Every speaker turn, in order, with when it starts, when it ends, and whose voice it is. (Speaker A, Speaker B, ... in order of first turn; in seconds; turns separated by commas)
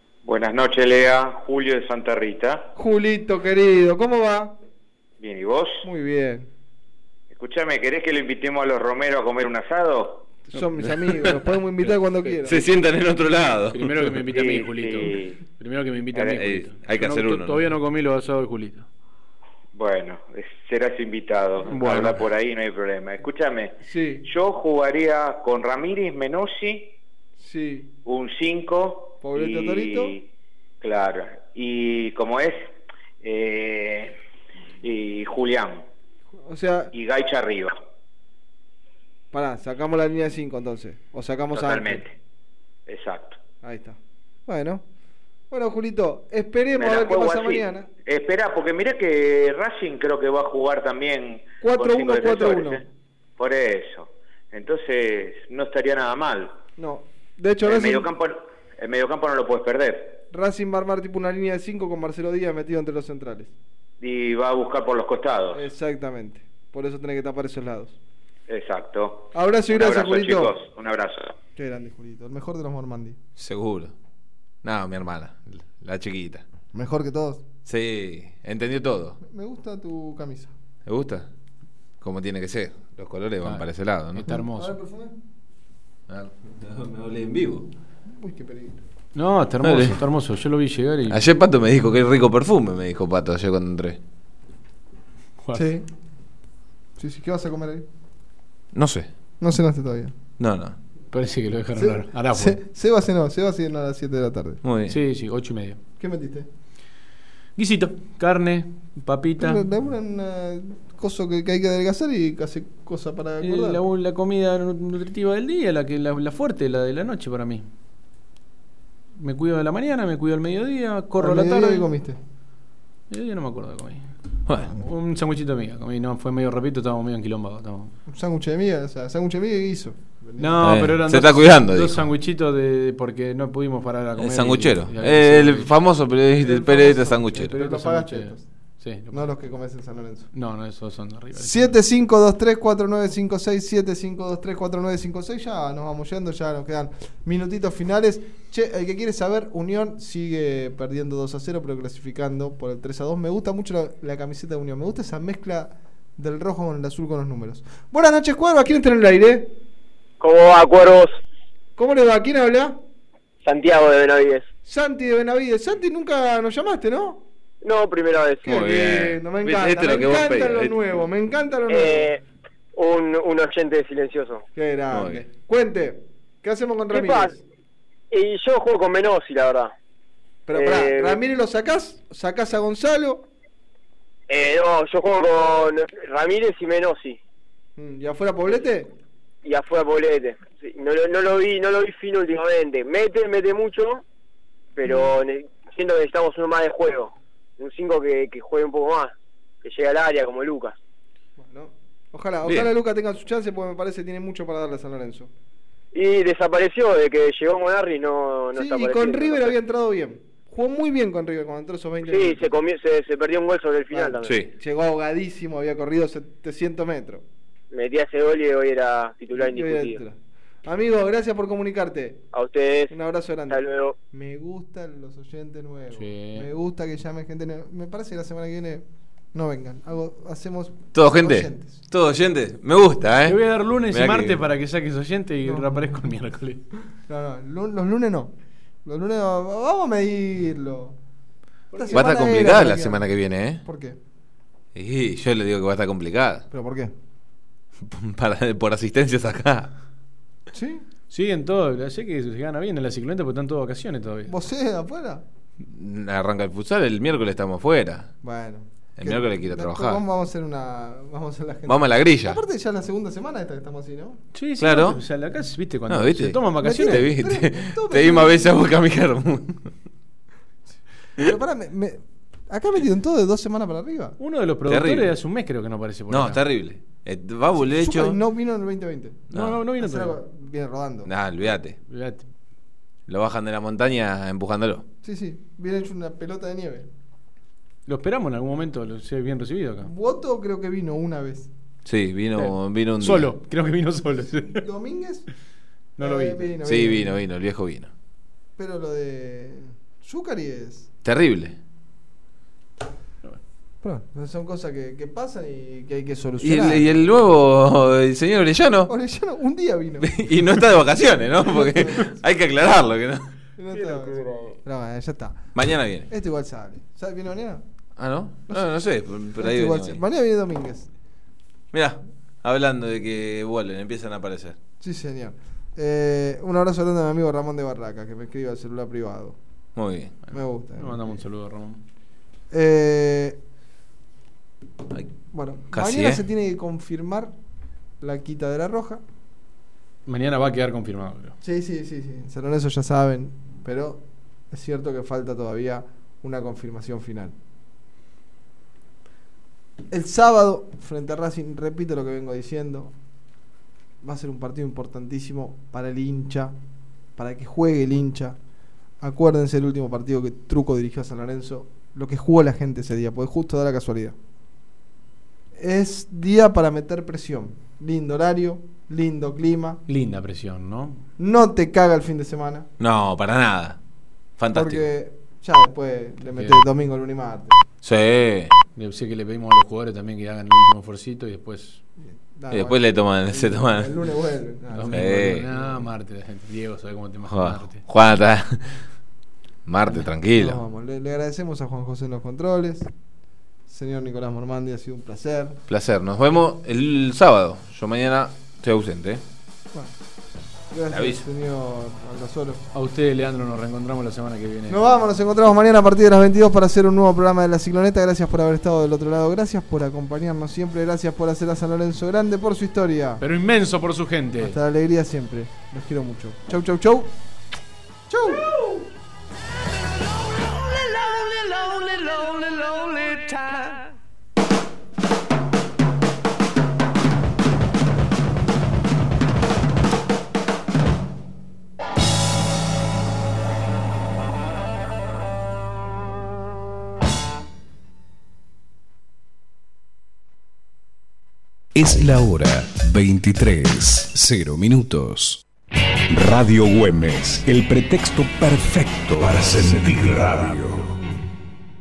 Speaker A: 0.2-2.7, Speaker B: 2.8-4.6, Speaker A: 5.2-5.9, Speaker B: 5.8-6.5, Speaker A: 7.3-10.3, Speaker B: 10.4-12.6, Speaker C: 10.8-11.4, Speaker C: 12.4-14.3, Speaker D: 13.4-18.9, Speaker A: 14.3-15.4, Speaker C: 16.3-17.7, Speaker A: 19.7-26.9, Speaker D: 21.7-22.2, Speaker B: 23.8-24.3, Speaker B: 27.4-27.9, Speaker A: 28.1-30.3, Speaker B: 29.2-30.1, Speaker A: 30.8-34.2, Speaker A: 34.8-35.9, Speaker B: 36.4-36.9, Speaker A: 36.9-37.8, Speaker B: 39.3-42.0, Speaker A: 41.5-42.1, Speaker A: 42.9-43.4, Speaker B: 43.6-44.8, Speaker B: 45.5-47.9, Speaker A: 46.8-52.8, Speaker B: 51.6-52.8, Speaker A: 53.4-56.6, Speaker B: 56.8-58.1, Speaker A: 57.6-60.2, Speaker B: 60.3-63.5, Speaker A: 64.0-65.7, Speaker B: 65.5-68.0, Speaker A: 68.5-71.3, Speaker B: 69.3-70.6, Speaker B: 71.6-73.2, Speaker C: 73.4-73.9, Speaker C: 74.6-76.4, Speaker B: 76.7-77.4, Speaker C: 77.7-79.2, Speaker B: 79.2-80.5, Speaker C: 80.9-81.3, Speaker C: 82.0-84.3, Speaker D: 83.4-84.8, Speaker B: 84.4-85.1, Speaker C: 86.1-87.7, Speaker B: 88.2-88.8, Speaker D: 89.1-91.2, Speaker C: 89.6-90.0, Speaker C: 91.1-94.0, Speaker B: 95.5-95.9, Speaker B: 97.0-97.8, Speaker C: 98.7-99.1, Speaker B: 99.4-100.1, Speaker C: 100.4-100.8, Speaker D: 101.1-102.6, Speaker B: 101.8-104.6, Speaker C: 104.6-105.0, Speaker D: 104.9-105.8, Speaker B: 106.0-106.5, Speaker D: 107.6-109.6, Speaker B: 109.4-113.8, Speaker D: 113.4-117.7, Speaker D: 119.2-121.9, Speaker B: 121.2-122.2, Speaker D: 123.1-124.1, Speaker C: 124.5-124.7, Speaker D: 124.7-127.9, Speaker B: 128.1-130.6, Speaker D: 130.4-135.7, Speaker C: 130.6-132.0, Speaker C: 134.2-137.6, Speaker B: 136.4-138.4, Speaker D: 137.4-139.3, Speaker B: 139.1-140.3, Speaker D: 140.3-141.8, Speaker B: 141.4-159.5, Speaker E: 160.2-161.2, Speaker B: 161.8-162.8, Speaker E: 163.4-164.4, Speaker B: 164.6-167.2, Speaker E: 167.6-168.4, Speaker C: 168.4-170.8, Speaker B: 168.4-172.1, Speaker E: 171.7-172.2, Speaker E: 172.8-174.4, Speaker B: 174.6-177.4, Speaker C: 174.9-175.2, Speaker E: 176.9-177.3, Speaker E: 178.1-179.7, Speaker B: 180.5-183.2, Speaker E: 180.5-181.2, Speaker E: 184.3-187.2, Speaker B: 187.8-188.9, Speaker E: 189.4-194.0, Speaker E: 194.8-199.1, Speaker B: 194.8-195.2, Speaker E: 199.6-200.8, Speaker B: 201.4-205.3, Speaker C: 202.4-202.7, Speaker E: 205.9-209.6, Speaker B: 208.6-212.6, Speaker E: 212.1-214.3, Speaker B: 213.9-217.2, Speaker C: 214.2-214.5, Speaker E: 217.7-220.0, Speaker B: 219.3-222.2, Speaker E: 222.3-222.9, Speaker B: 222.9-231.7, Speaker E: 223.5-223.9, Speaker D: 225.9-226.5, Speaker C: 230.9-234.4, Speaker D: 233.2-236.6, Speaker B: 235.4-236.0, Speaker B: 237.1-238.3, Speaker B: 238.8-240.9, Speaker D: 241.7-242.0, Speaker B: 241.7-243.1, Speaker C: 241.9-243.6, Speaker B: 243.6-244.0, Speaker C: 244.8-246.4, Speaker B: 246.5-246.9, Speaker C: 247.9-249.7, Speaker B: 250.5-250.8, Speaker D: 251.1-254.3, Speaker B: 254.3-255.2, Speaker C: 255.7-258.1, Speaker B: 258.2-264.2, Speaker C: 259.0-260.0, Speaker C: 261.7-262.4, Speaker D: 264.3-267.1, Speaker C: 264.6-265.0, Speaker C: 265.9-269.7, Speaker B: 266.6-268.6, Speaker B: 271.2-274.2, Speaker D: 274.2-276.4, Speaker C: 274.7-275.1, Speaker C: 276.1-278.2, Speaker B: 277.6-279.3, Speaker C: 279.3-279.6, Speaker D: 279.3-280.2, Speaker B: 279.8-281.1, Speaker C: 281.1-281.8, Speaker D: 281.9-282.2, Speaker C: 283.1-284.9, Speaker B: 285.0-286.9, Speaker D: 287.9-289.9, Speaker B: 289.8-291.5, Speaker C: 291.9-293.3, Speaker D: 292.4-294.7, Speaker B: 294.5-295.3, Speaker D: 296.0-296.5, Speaker B: 296.0-297.1, Speaker C: 296.6-297.9, Speaker B: 298.6-300.9, Speaker C: 301.0-301.6, Speaker B: 303.8-307.0, Speaker C: 306.4-308.9, Speaker B: 308.9-310.2, Speaker C: 310.0-313.3, Speaker B: 311.4-312.1, Speaker B: 313.6-315.5, Speaker C: 315.6-316.1, Speaker B: 316.1-317.6, Speaker C: 318.0-320.0, Speaker B: 319.4-320.9, Speaker C: 321.7-324.6, Speaker B: 324.8-329.4, Speaker C: 329.8-330.1, Speaker D: 330.3-331.8, Speaker B: 330.3-331.2, Speaker B: 332.5-333.4, Speaker B: 335.3-337.3, Speaker C: 335.7-336.2, Speaker B: 338.0-339.0, Speaker D: 340.1-341.4, Speaker B: 341.4-347.4, Speaker B: 349.9-352.9, Speaker B: 354.0-356.6, Speaker B: 357.2-358.4, Speaker B: 359.0-364.1, Speaker B: 365.6-369.8, Speaker D: 369.9-371.0, Speaker B: 371.2-372.7, Speaker C: 372.8-373.8, Speaker C: 374.4-374.9, Speaker B: 374.5-377.6, Speaker D: 376.2-376.6, Speaker C: 377.8-378.5, Speaker D: 378.8-381.8, Speaker B: 382.0-385.1, Speaker C: 382.5-383.9, Speaker D: 384.7-387.8, Speaker C: 384.9-385.5, Speaker C: 387.3-388.8, Speaker C: 389.7-390.6, Speaker B: 390.3-392.9, Speaker B: 393.7-395.6, Speaker C: 395.7-399.2, Speaker B: 400.7-402.6, Speaker C: 400.9-401.2, Speaker D: 402.7-404.9, Speaker B: 404.7-413.2, Speaker D: 413.2-414.6, Speaker B: 414.4-417.1, Speaker B: 418.1-418.8, Speaker F: 441.8-445.4, Speaker F: 446.1-450.9